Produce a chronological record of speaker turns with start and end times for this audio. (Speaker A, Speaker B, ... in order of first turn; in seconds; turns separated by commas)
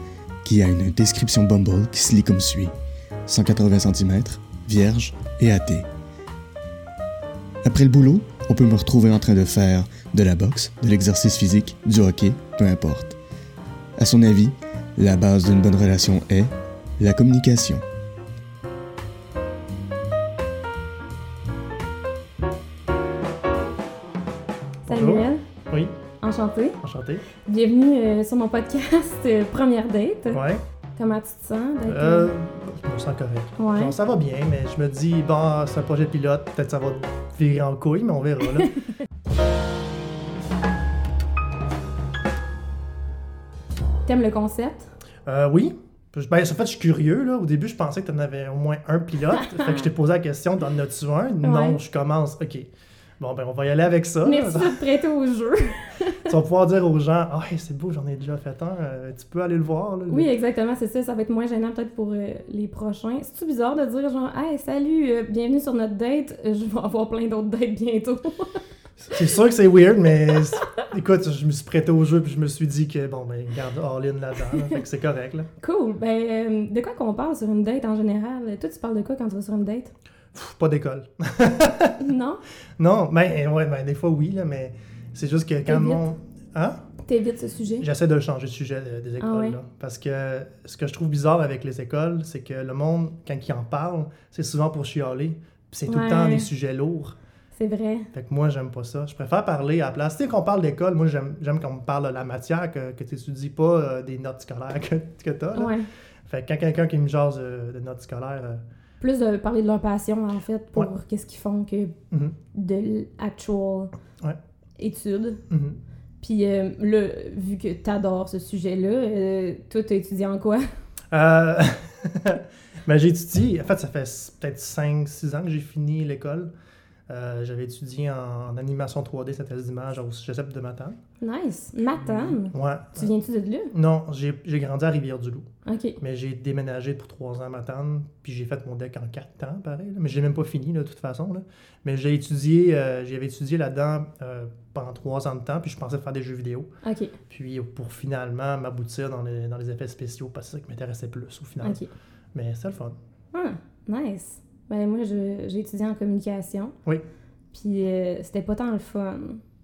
Speaker A: 0.4-2.7, Speaker A: 3.3-5.9, Speaker A: 7.6-13.2, Speaker A: 14.0-17.8, Speaker B: 24.9-25.4, Speaker C: 24.9-25.9, Speaker B: 26.2-26.8, Speaker C: 26.8-27.2, Speaker B: 27.4-30.4, Speaker C: 30.3-30.6, Speaker B: 31.0-32.3, Speaker C: 31.9-38.7, Speaker B: 33.6-34.0, Speaker B: 44.1-44.9, Speaker C: 45.3-52.7, Speaker B: 49.4-49.9, Speaker B: 51.4-51.8, Speaker C: 53.2-54.8, Speaker B: 54.2-56.3, Speaker C: 56.3-60.3, Speaker B: 60.1-68.6, Speaker C: 69.0-75.5, Speaker B: 75.6-79.9, Speaker C: 80.3-82.0, Speaker B: 82.0-82.4, Speaker C: 82.8-86.8, Speaker B: 85.7-86.0, Speaker B: 87.1-87.9, Speaker C: 87.8-97.2, Speaker B: 89.2-89.6, Speaker B: 95.9-96.5, Speaker B: 97.5-98.1, Speaker C: 98.1-105.7, Speaker B: 105.5-105.9, Speaker C: 106.3-108.6, Speaker B: 109.0-112.0, Speaker B: 112.5-113.9, Speaker B: 114.8-115.4, Speaker C: 115.5-115.8, Speaker B: 116.2-120.7, Speaker C: 121.1-126.5, Speaker C: 127.1-131.0, Speaker B: 131.2-133.7, Speaker C: 132.0-133.1, Speaker C: 133.7-135.5, Speaker B: 135.7-136.0, Speaker C: 136.0-146.7, Speaker B: 146.8-147.2, Speaker C: 147.3-151.8, Speaker B: 151.6-151.9, Speaker C: 152.3-152.9, Speaker B: 153.3-156.7, Speaker B: 157.5-159.4